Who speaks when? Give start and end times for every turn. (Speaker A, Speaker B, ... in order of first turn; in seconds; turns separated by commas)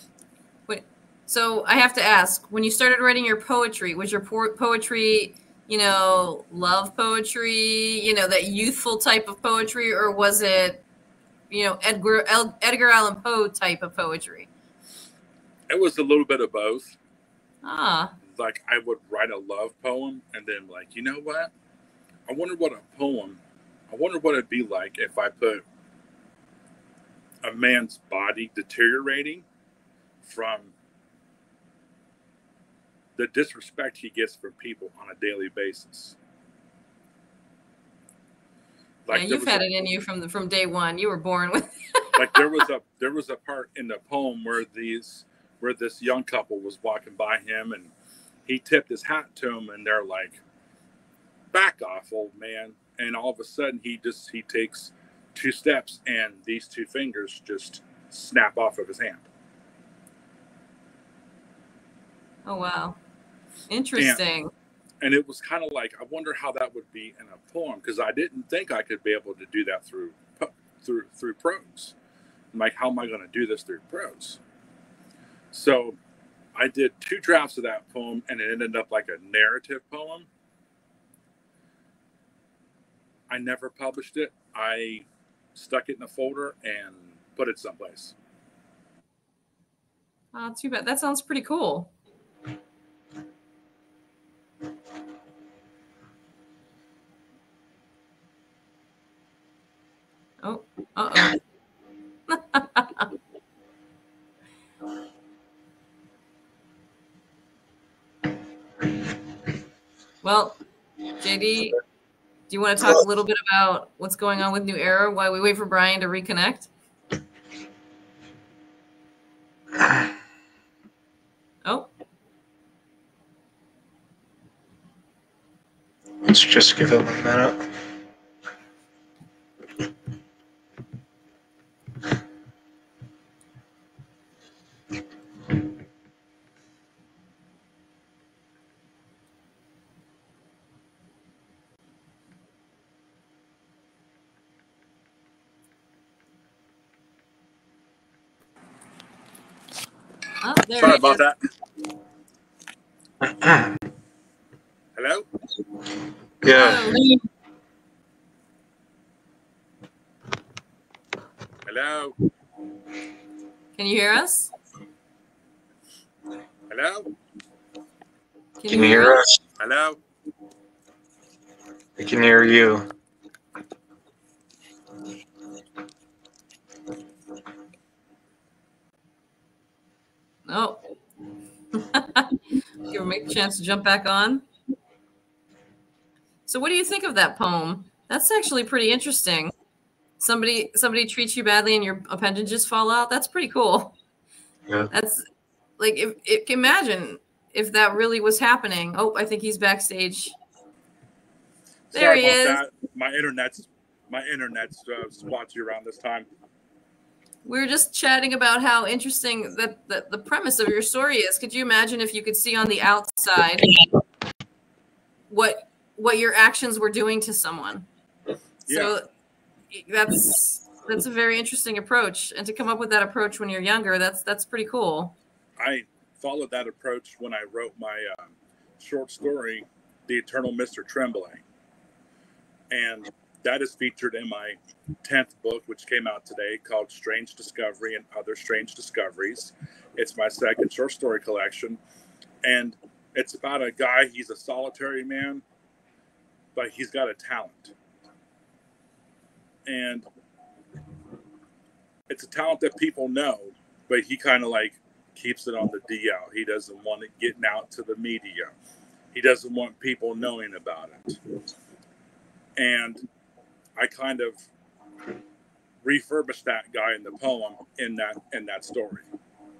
Speaker A: 0.7-10.8, Speaker A: 11.5-14.5, Speaker B: 15.7-17.0, Speaker A: 17.6-18.1, Speaker B: 18.3-21.5, Speaker B: 22.3-25.6, Speaker B: 27.4-29.4, Speaker B: 30.2-30.7, Speaker B: 33.1-36.1, Speaker B: 39.0-39.7, Speaker A: 39.1-42.5, Speaker B: 42.1-47.9, Speaker B: 48.5-50.4, Speaker B: 51.5-59.2, Speaker A: 62.5-63.0, Speaker A: 63.7-64.5, Speaker B: 64.0-64.2, Speaker B: 65.0-71.9, Speaker B: 72.5-74.4, Speaker B: 75.5-76.0, Speaker B: 76.5-80.3, Speaker B: 83.3-88.1, Speaker A: 90.3-91.9, Speaker A: 100.4-101.4, Speaker A: 102.3-103.1, Speaker A: 110.2-110.6, Speaker A: 111.2-111.8, Speaker A: 112.5-116.7, Speaker C: 119.8-120.1, Speaker A: 121.6-121.9, Speaker C: 126.2-127.7, Speaker A: 150.4-151.2, Speaker B: 150.8-151.4, Speaker C: 153.2-153.8, Speaker B: 154.9-155.3, Speaker C: 156.4-157.0, Speaker A: 156.4-157.1, Speaker B: 161.7-162.2, Speaker A: 163.8-164.5, Speaker B: 166.7-167.1, Speaker A: 168.6-169.2, Speaker C: 168.7-169.4, Speaker B: 169.6-170.0, Speaker C: 172.0-172.8, Speaker A: 180.5-180.8, Speaker A: 181.7-184.4, Speaker A: 186.5-189.5, Speaker A: 190.2-193.9, Speaker A: 194.9-195.2, Speaker A: 195.8-200.3, Speaker B: 201.9-206.3, Speaker A: 201.9-202.6, Speaker A: 207.4-213.7, Speaker A: 215.3-217.9, Speaker A: 218.7-219.1, Speaker B: 218.7-218.9, Speaker A: 219.7-225.2, Speaker B: 225.6-231.4, Speaker B: 232.7-241.8, Speaker B: 242.4-245.4, Speaker B: 246.5-247.7, Speaker B: 249.7-250.1, Speaker B: 252.1-258.5, Speaker B: 259.1-261.2, Speaker B: 262.6-263.0, Speaker B: 263.8-264.4, Speaker B: 265.8-269.1